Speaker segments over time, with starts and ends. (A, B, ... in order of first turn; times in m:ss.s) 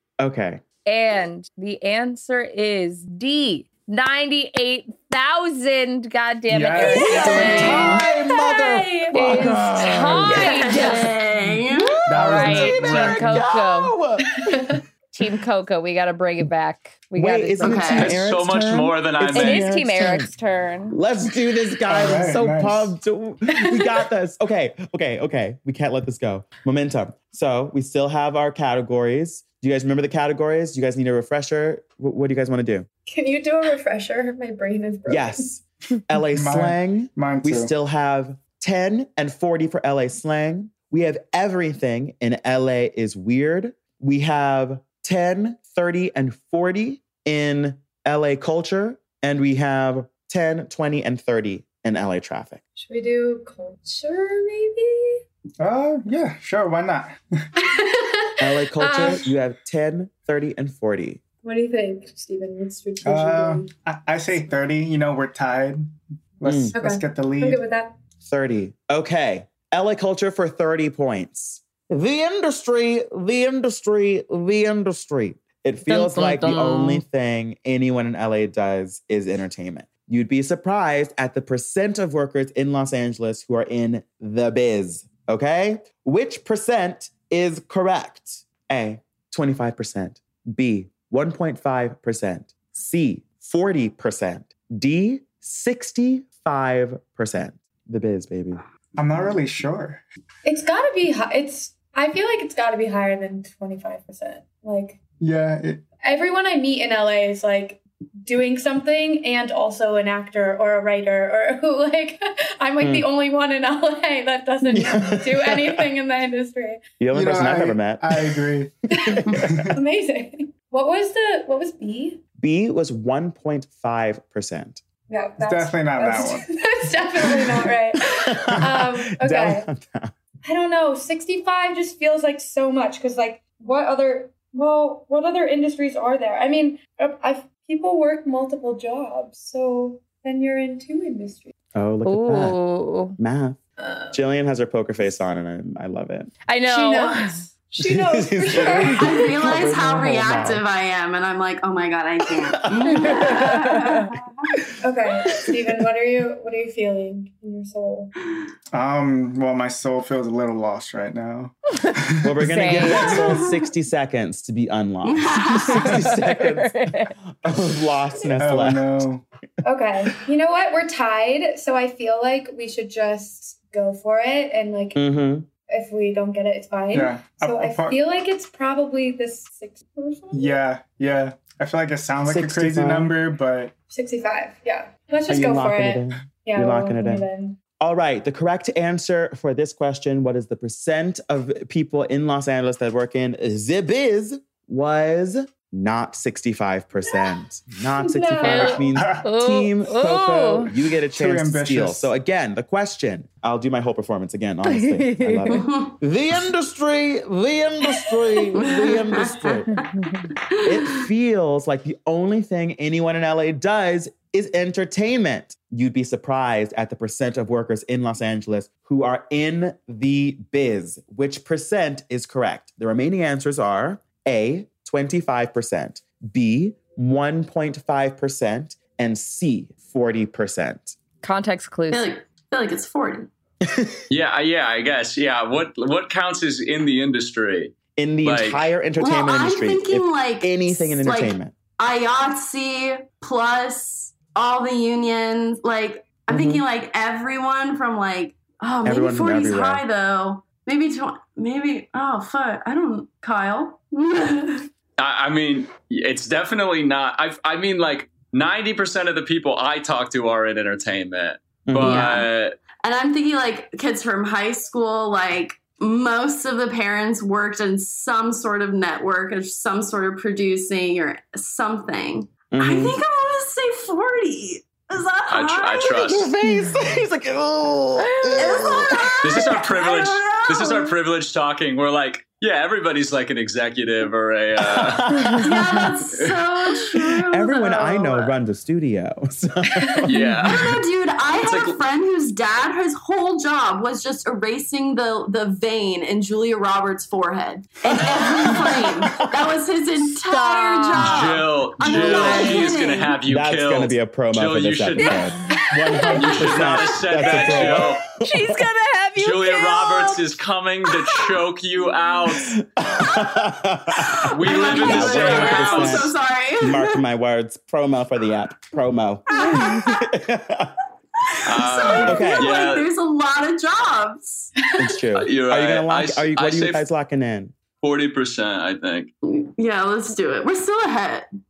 0:00.2-0:00.6 A
0:00.9-0:07.9 B
0:06.5-0:08.0 C
0:06.8-0:11.0 D
0:07.0-0:10.9 A
0:07.1-0:07.9 E
0:09.1-0:11.1 B
0:10.3-0:12.0 E
0:12.1-0:13.4 C
0:12.1-0:14.4 A
0:12.1-0:14.0 B
0:14.4-0:14.8 D
0:15.1-0:18.0 B
0:17.2-0:20.3 A
0:17.6-0:18.2 E
0:17.9-0:19.7 F
0:19.3-0:21.0 B
0:20.9-0:32.9 A
0:21.9-0:23.0 C
0:33.1-0:35.5 D
0:35.1-0:52.6 A
0:36.3-0:37.7 C
0:52.8-0:55.2 D
0:55.6-0:57.2 C
0:57.6-0:59.3 D
0:58.4-1:01.2 A
1:01.4-1:03.7 D
1:03.0-1:07.6 C
1:06.4-1:06.8 A
1:06.7-1:08.0 D
1:08.2-1:38.6 A
1:15.9-1:17.0 B
1:39.0-1:40.0 C
1:40.4-1:45.0 D
1:45.2-1:45.9 C
1:46.0-1:56.8 D
1:52.8-1:53.1 A
1:54.7-1:55.9 A
1:57.0-1:58.5 A
1:57.1-1:58.7 C
1:58.9-2:02.2 D
1:59.0-1:59.5 A
1:59.3-1:59.7 C
2:02.4-2:04.8 A
2:05.1-2:09.7 D
2:05.4-2:06.4 C
2:08.1-2:10.1 A
2:10.4-2:21.5 D
2:21.8-2:22.6 A
2:22.0-2:23.2 B
2:23.2-2:23.6 A
2:23.8-2:24.2 D
2:24.1-2:26.3 A
2:26.5-2:27.4 B
2:26.6-2:29.6 D
2:27.8-2:30.6 A
2:28.9-2:34.2 E
2:32.6-2:33.5 A
2:33.1-2:34.1 B
2:34.8-2:38.1 D
2:38.7-2:42.3 C
2:41.8-2:43.2 B
2:42.2-2:49.1 A
2:43.1-2:43.6 E
2:45.0-2:46.0 E
2:45.7-2:47.2 B
2:48.4-2:49.2 C
2:49.6-2:55.0 D
2:55.0-2:55.5 A
2:55.7-3:00.6 D
2:56.9-2:58.0 C
3:00.3-3:03.7 C
3:02.3-3:03.1 A
3:03.9-3:07.6 D
3:05.3-3:07.3 A
3:07.8-3:29.9 A
3:18.0-3:18.9 D
3:18.4-3:20.7 B
3:18.9-3:19.3 C
3:21.1-3:22.1 C
3:24.6-3:25.6 B
3:25.5-3:26.0 E
3:28.6-3:29.9 E
3:29.7-3:30.3 B
3:30.5-3:31.0 E
3:30.6-3:51.0 A
3:51.2-3:52.1 B
3:51.9-3:53.3 E
3:53.6-3:54.0 A
3:54.1-3:58.7 F
3:58.0-4:01.6 A
3:59.0-4:14.7 E
4:06.3-4:06.6 A
4:08.8-4:09.8 A
4:15.0-4:22.6 F
4:21.7-4:22.1 A
4:21.8-4:22.3 E
4:22.8-4:36.1 E
4:32.5-4:33.0 A
4:35.3-4:36.3 F
4:36.0-4:39.6 A
4:38.0-4:38.6 B
4:38.4-4:41.0 E
4:39.2-4:45.1 F
4:44.6-4:45.9 A
4:45.4-4:48.4 E
4:47.3-4:50.5 A
4:50.0-4:50.8 F
4:50.4-5:03.2 E
4:51.4-4:51.8 F
4:57.9-4:59.5 A
5:00.3-5:01.3 B
5:01.0-5:05.3 F
5:01.9-5:03.0 B
5:03.2-5:08.6 A
5:05.0-5:10.3 B
5:06.2-5:07.4 E
5:06.2-5:08.0 F
5:09.2-5:12.6 F
5:12.3-5:20.7 A
5:14.1-5:17.0 E
5:14.3-5:16.1 F
5:19.4-5:20.0 E
5:21.3-5:24.5 E
5:21.5-5:22.9 F
5:22.0-5:22.5 A
5:24.8-5:27.6 A
5:25.2-5:26.8 F
5:27.8-5:29.1 F
5:29.2-5:31.3 E